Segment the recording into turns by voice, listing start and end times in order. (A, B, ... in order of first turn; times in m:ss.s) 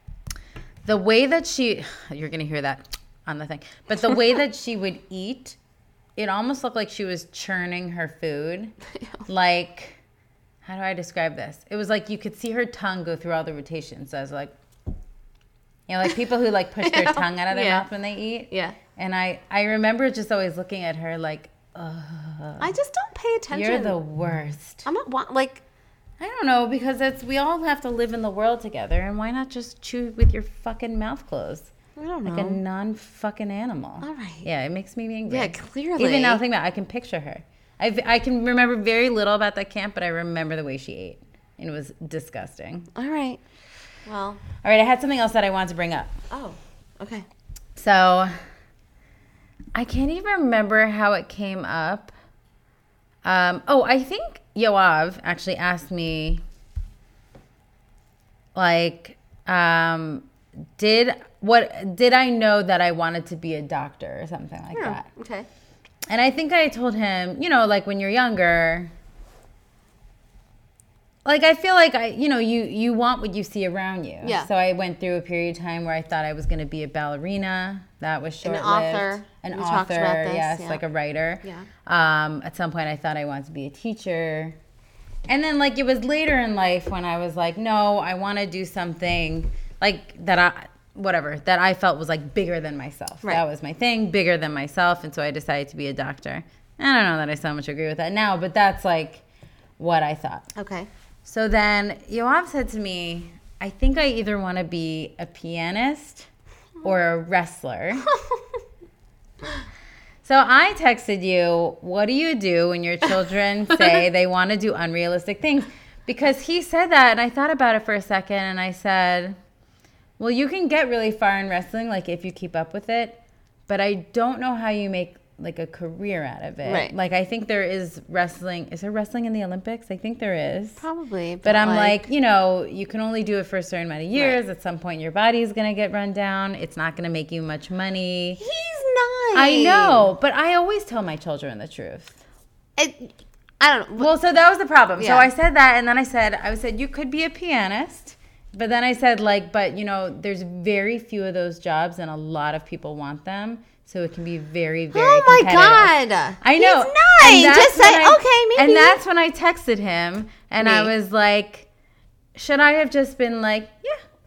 0:00.8-0:05.6 A
0:06.2-0:08.7 A
0:09.3-0:10.0 A
0:10.6-0:14.5 A
0:15.9-0:22.7 A
0:16.8-0:17.8 B
0:18.5-0:18.8 B
0:22.6-0:24.0 B
0:23.5-0:24.8 A
0:24.8-0:25.6 B
0:26.2-0:31.7 A
0:32.0-0:32.6 B
0:32.2-0:42.9 A
0:34.0-0:34.4 B
0:35.3-0:36.4 B
0:42.9-0:43.4 B
0:44.0-0:44.4 B
0:44.6-0:46.1 A
0:46.3-0:47.2 B
0:47.8-0:48.4 A
0:49.7-0:52.1 A
0:53.2-0:56.4 A
0:58.5-1:00.3 A
1:00.8-1:05.0 A
1:04.7-1:05.5 B
1:06.1-1:08.9 A
1:11.2-1:24.6 A
1:14.2-1:14.5 B
1:18.4-1:20.8 B
1:21.4-1:21.7 B
1:25.3-1:39.2 A
1:39.8-1:40.5 A
1:40.6-1:40.9 B
1:41.2-1:46.3 A
1:46.8-1:48.1 A
1:48.1-1:48.4 B
1:50.2-1:59.4 A
2:00.2-2:10.8 A
2:06.6-2:06.9 B
2:10.8-2:12.0 B
2:11.4-2:18.4 A
2:14.1-2:14.4 B
2:18.4-2:20.1 B
2:19.3-2:22.1 A
2:22.8-2:24.1 B
2:24.0-2:41.7 A
2:25.0-2:25.3 B
2:34.9-2:39.0 B
2:40.6-2:40.9 B
2:42.3-2:44.0 A